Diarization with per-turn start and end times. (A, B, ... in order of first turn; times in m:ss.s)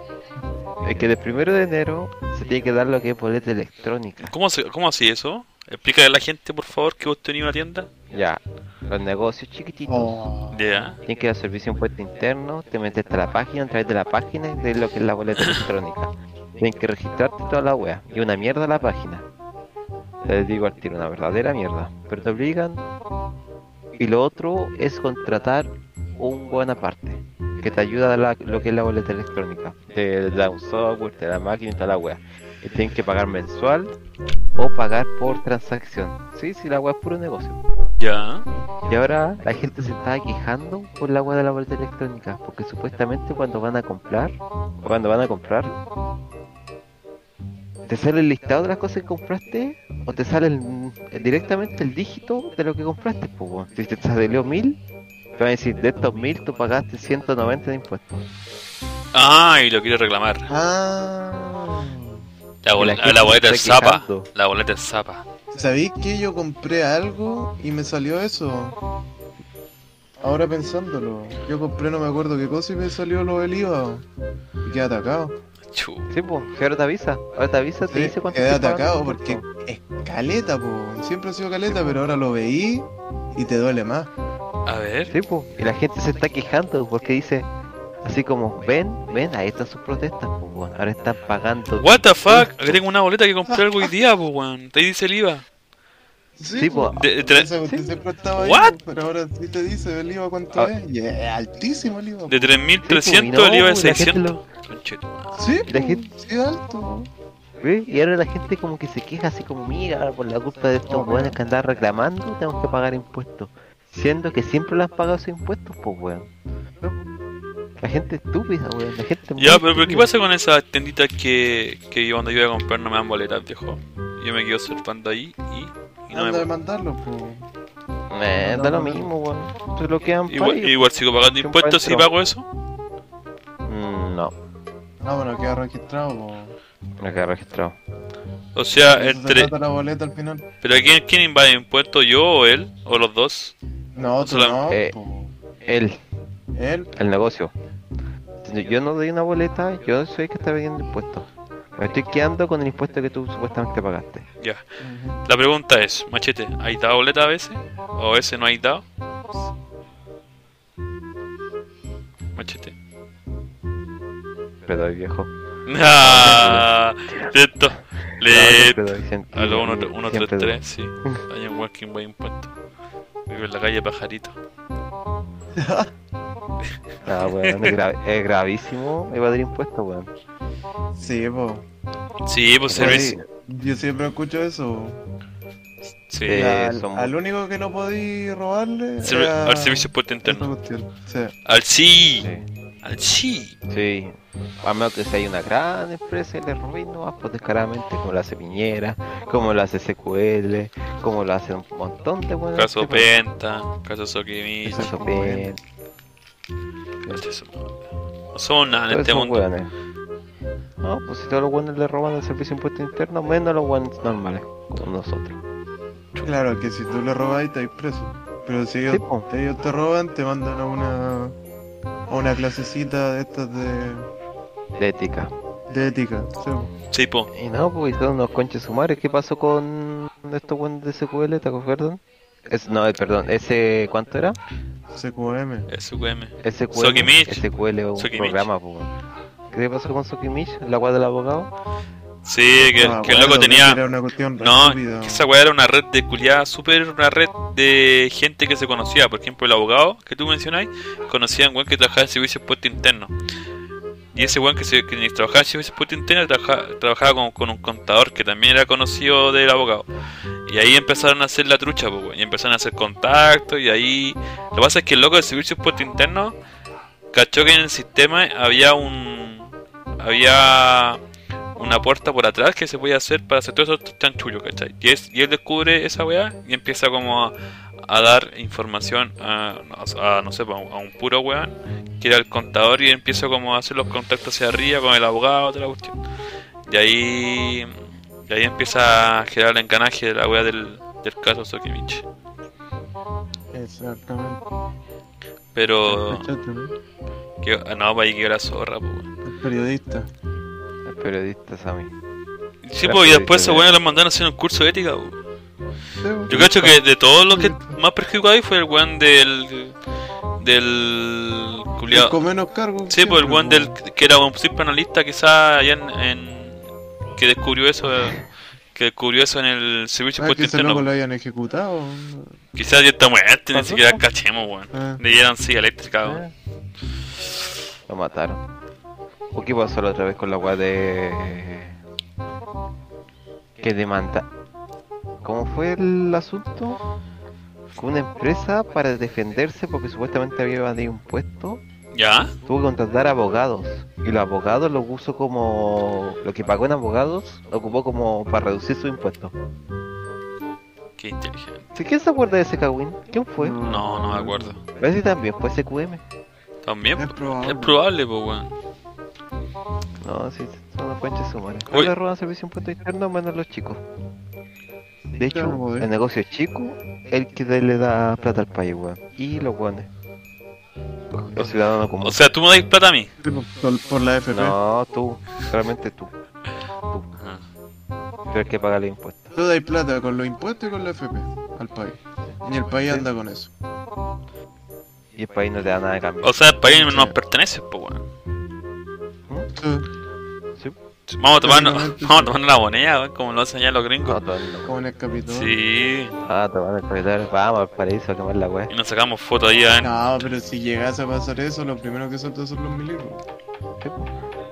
0:00.8-0:04.3 A
0:04.2-0:07.9 B
0:08.1-0:10.2 A
0:09.9-0:10.8 C
0:10.5-0:11.0 B
0:11.0-0:19.3 A
0:20.2-0:22.8 A
0:24.0-0:33.9 A
0:34.6-0:37.6 A
0:38.0-0:38.5 B
0:38.9-0:45.8 A
0:47.9-0:54.8 A
0:55.4-0:58.3 A
0:59.1-1:00.5 B
1:00.5-1:02.2 C
1:02.6-1:05.2 B
1:02.8-1:04.3 A
1:05.5-1:08.8 C
1:10.2-1:14.0 C
1:14.6-1:15.4 C
1:15.7-1:16.1 B
1:16.1-1:19.4 A
1:17.8-1:24.1 C
1:24.7-1:25.1 B
1:25.1-1:27.5 A
1:28.0-1:32.8 A
1:31.8-1:35.4 B
1:36.4-1:42.6 C
1:36.5-1:37.0 A
1:37.0-1:37.5 B
1:37.7-1:37.9 A
1:38.4-1:38.8 B
1:42.3-1:45.4 B
1:42.8-1:44.4 A
1:45.4-1:47.1 C
1:45.7-1:46.0 A
1:47.6-1:56.3 A
1:50.9-1:51.4 C
1:57.8-2:00.1 A
1:59.4-2:06.5 B
2:06.1-2:07.5 C
2:08.1-2:10.7 A
2:08.4-2:09.1 C
2:10.3-2:12.5 B
2:11.3-2:12.1 A
2:13.6-2:14.3 A
2:15.0-2:16.6 C
2:17.0-2:17.8 A
2:18.6-2:19.5 B
2:18.8-2:20.5 C
2:20.6-2:23.6 B
2:24.0-2:25.4 C
2:24.2-2:24.6 B
2:24.7-2:24.9 A
2:25.6-2:26.0 A
2:26.6-2:26.9 C
2:27.0-2:27.5 A
2:28.4-2:34.3 A
2:34.8-2:35.2 C
2:35.2-2:38.8 B
2:42.4-2:42.7 B
2:44.6-2:45.3 A
2:45.7-2:52.5 B
2:46.0-2:47.4 A
2:48.1-2:51.2 A
2:53.3-2:54.4 B
2:55.5-2:55.9 C
2:57.0-3:00.1 A
2:57.2-2:57.7 B
3:01.0-3:01.6 C
3:02.3-3:03.2 B
3:02.7-3:03.2 A
3:02.8-3:05.0 C
3:06.1-3:06.4 B
3:06.2-3:07.1 A
3:06.3-3:11.4 C
3:09.0-3:10.5 B
3:11.4-3:12.3 B
3:12.2-3:12.5 A
3:12.8-3:13.6 B
3:13.7-3:23.1 A
3:22.6-3:25.0 B
3:24.7-3:25.5 C
3:24.7-3:25.6 A
3:27.1-3:27.7 B
3:28.3-3:29.5 B
3:28.9-3:29.7 A
3:30.8-3:35.4 A
3:36.2-3:41.4 C
3:38.9-3:39.3 A
3:42.1-3:44.1 C
3:44.8-3:45.3 A
3:45.7-3:46.7 C
3:46.9-3:47.3 B
3:47.3-3:54.4 A
3:54.9-3:55.7 C
3:55.7-3:58.5 B
3:56.4-3:58.9 A
3:59.5-4:01.5 A
4:02.2-4:03.8 B
4:02.8-4:05.2 C
4:04.4-4:13.1 B
4:14.1-4:19.9 B
4:20.5-4:26.4 B
4:27.1-4:31.0 B
4:31.6-4:46.0 B
4:46.7-4:52.1 B
4:53.5-4:54.4 C
4:55.5-4:56.3 B
4:55.9-4:56.7 C
4:57.4-4:59.1 B
4:59.2-5:00.1 C
5:00.8-5:01.9 A
5:02.6-5:05.2 B
5:02.8-5:03.8 A
5:06.0-5:07.8 C
5:06.3-5:09.8 B
5:10.4-5:12.2 B
5:11.9-5:13.8 C
5:12.9-5:16.6 B
5:17.2-5:20.9 B
5:20.2-5:22.4 C
5:22.6-5:26.2 B
5:23.5-5:24.0 A
5:24.7-5:25.0 C
5:26.0-5:26.3 A
5:27.9-5:28.4 A
5:29.3-5:31.8 A
5:33.6-5:34.3 A
5:35.2-5:36.8 A
5:37.8-5:41.6 A
5:41.9-5:42.3 B
5:42.4-5:49.3 A
5:51.0-5:51.6 B
5:51.8-5:53.6 A
5:53.4-5:54.6 C
5:53.7-5:54.6 B
5:54.8-5:56.0 A
5:56.6-5:58.5 B
5:57.0-5:57.8 C
6:00.0-6:03.8 A
6:05.2-6:09.9 A
6:05.2-6:05.9 C
6:11.1-6:12.2 A
6:12.0-6:13.1 B
6:13.2-6:14.6 C
6:14.3-6:16.2 A
6:17.1-6:17.4 B
6:18.3-6:19.4 A
6:19.4-6:23.5 C
6:25.2-6:26.4 A
6:26.2-6:28.0 B
6:26.6-6:27.2 C
6:29.6-6:29.9 C
6:31.1-6:34.2 B
6:31.4-6:32.3 C
6:34.0-6:34.8 A
6:34.7-6:35.6 C
6:35.3-6:36.2 B
6:36.2-6:38.7 A
6:38.7-6:39.9 B
6:39.8-6:43.2 C
6:43.8-6:44.1 A